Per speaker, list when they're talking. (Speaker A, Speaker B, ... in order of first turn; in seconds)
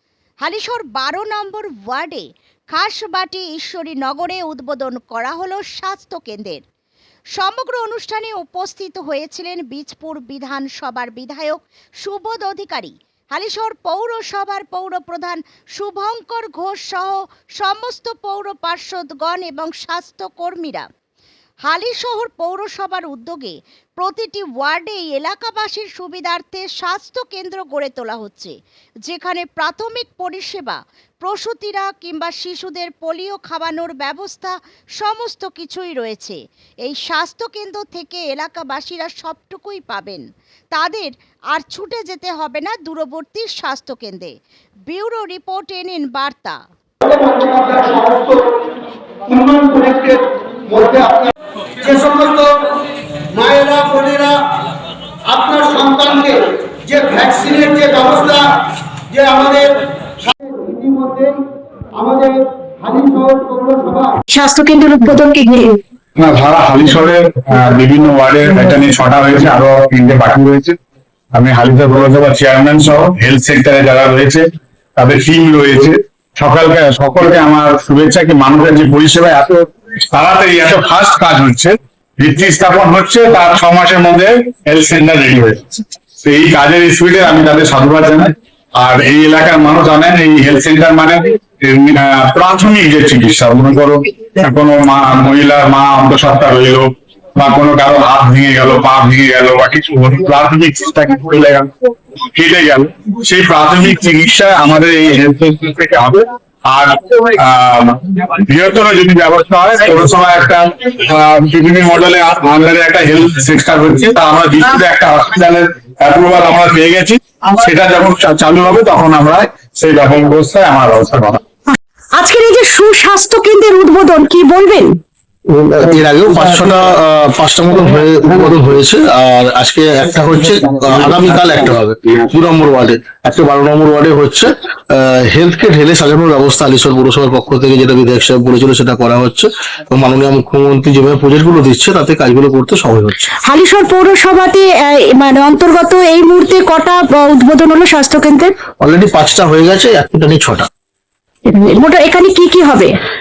Speaker A: 0.4-6.6, 7.3-20.9, 21.6-28.5, 29.1-44.3, 44.9-46.6
Speaker B: 47.0-48.5, 49.3-52.6, 53.3-54.4, 55.2-58.5, 59.1-61.4, 61.9-64.2
Speaker C: 64.3-65.8, 121.7-125.0, 143.4-148.5, 151.5-153.0
Speaker D: 66.2-70.8, 71.3-101.7, 102.3-121.4
Speaker E: 125.5-143.3, 148.8-150.7